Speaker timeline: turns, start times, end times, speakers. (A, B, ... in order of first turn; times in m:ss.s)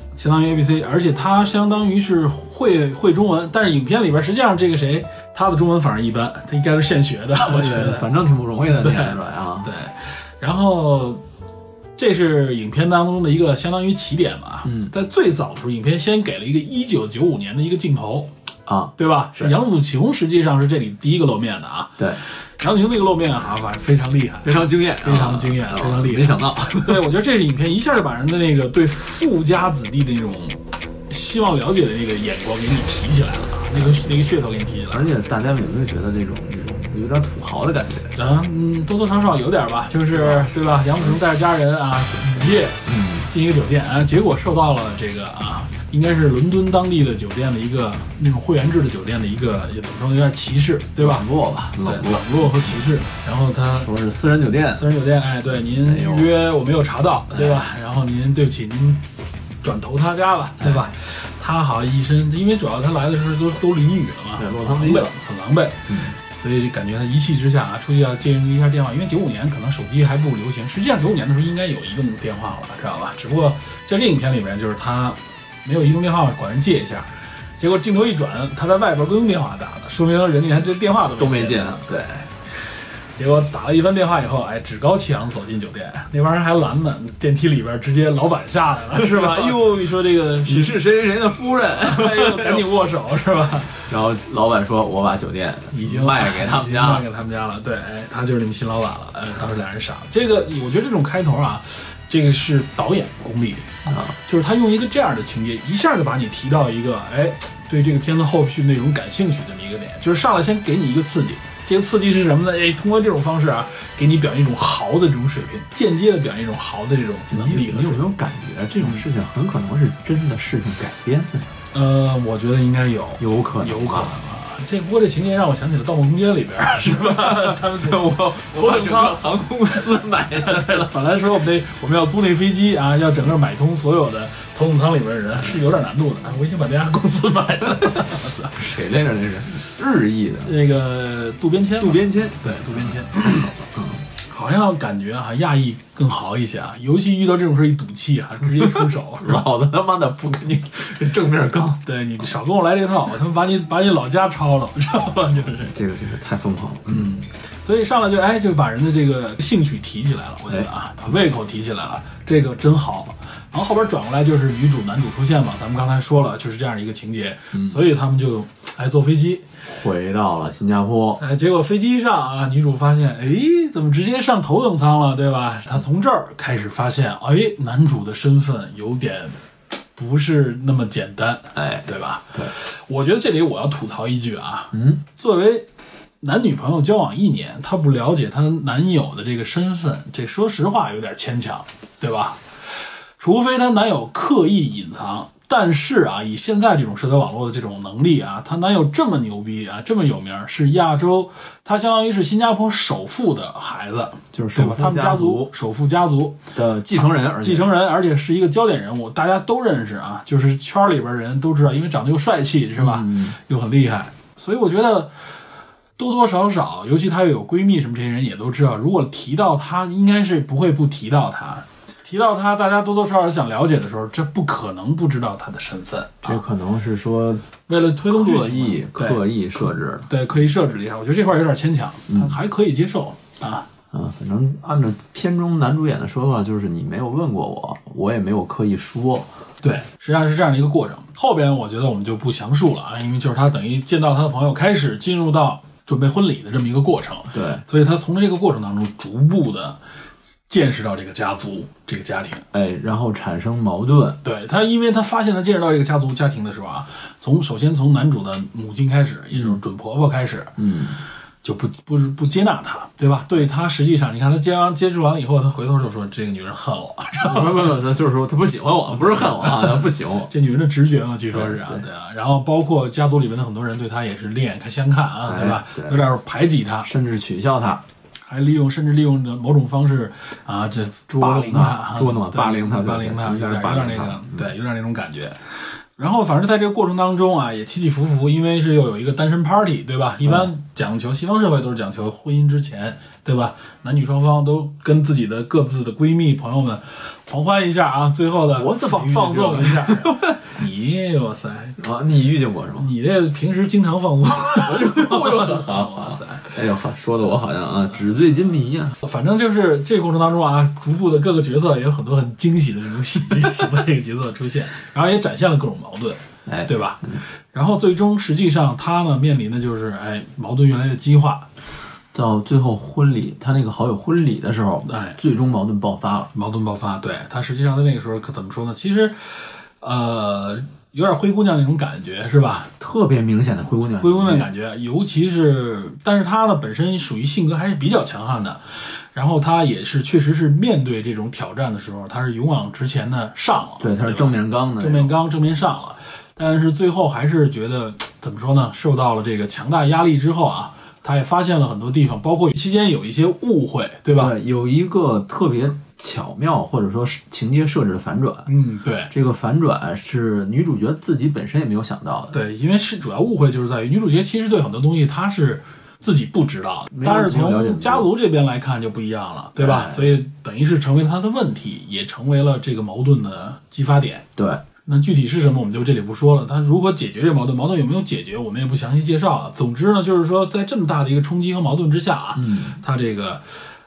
0:00.2-0:08.1 A
0:07.4-0:09.7 B
0:08.8-0:11.2 A
0:12.0-0:18.3 A
0:14.6-0:14.9 B
0:18.7-0:19.6 B
0:19.0-0:22.1 A
0:22.6-0:35.1 A
0:24.4-0:27.1 B
0:34.9-0:38.2 B
0:38.2-0:51.3 A
0:40.2-0:41.2 B
0:42.9-0:43.3 B
0:51.0-0:52.3 B
0:51.8-0:53.9 A
0:53.8-0:54.9 B
0:54.8-0:59.0 A
0:55.5-0:56.3 B
0:57.3-0:57.7 B
0:59.6-1:22.2 A
1:00.6-1:00.9 B
1:04.4-1:05.1 B
1:05.9-1:06.2 B
1:21.2-1:22.2 B
1:23.2-1:30.8 A
1:28.9-1:29.7 B
1:30.5-1:32.7 B
1:31.8-1:33.8 A
1:33.9-1:37.0 B
1:35.7-1:58.2 A
1:43.9-1:44.2 B
1:57.3-2:01.5 B
2:01.7-2:09.2 A
2:03.2-2:04.2 B
2:07.0-2:11.0 B
2:10.4-2:18.6 A
2:18.0-2:20.6 B
2:20.4-2:23.5 A
2:21.8-2:24.0 B
2:24.2-2:29.5 A
2:28.6-2:32.2 B
2:31.8-2:35.8 A
2:35.7-2:37.2 B
2:36.9-2:49.4 A
2:47.5-2:47.8 B
2:49.6-2:51.2 B
2:51.2-2:59.4 A
3:00.0-3:05.7 A
3:01.6-3:02.5 B
3:04.7-3:05.0 B
3:06.2-3:12.4 A
3:13.2-3:26.4 A
3:24.3-3:25.5 B
3:26.5-3:27.7 B
3:27.3-3:35.1 A
3:32.8-3:33.4 B
3:36.0-3:46.4 A
3:46.2-3:47.5 B
3:47.7-3:53.7 A
3:48.1-3:50.1 B
3:52.1-3:52.4 B
3:53.9-3:59.3 B
3:59.6-4:09.8 A
4:07.3-4:07.6 B
4:10.5-4:12.4 A
4:12.5-4:14.2 B
4:14.2-4:20.5 A
4:19.3-4:19.6 B
4:20.6-4:21.0 B
4:21.4-4:27.8 A
4:27.2-4:30.3 B
4:29.0-4:36.9 A
4:31.3-4:31.9 B
4:35.3-4:36.0 B
4:36.8-4:37.8 B
4:38.3-4:45.4 A
4:41.1-4:44.5 B
4:46.0-5:01.8 A
4:50.2-4:50.5 B
4:58.5-5:00.4 B
5:01.8-5:02.9 B
5:02.8-5:06.6 A
5:04.2-5:09.0 B
5:09.0-5:21.5 A
5:16.5-5:17.2 B
5:22.1-5:26.3 B
5:24.9-5:25.2 A
5:26.3-5:32.7 A
5:32.8-5:34.5 B
5:34.0-5:38.6 A
5:39.1-5:54.3 A
5:43.8-5:45.1 B
5:54.2-5:58.5 B
5:58.5-5:59.1 A
5:59.1-6:02.4 B
6:02.3-6:14.3 A
6:06.9-6:08.1 B
6:09.6-6:10.1 B
6:14.4-6:14.6 B
6:14.9-6:23.4 A
6:22.4-6:22.8 B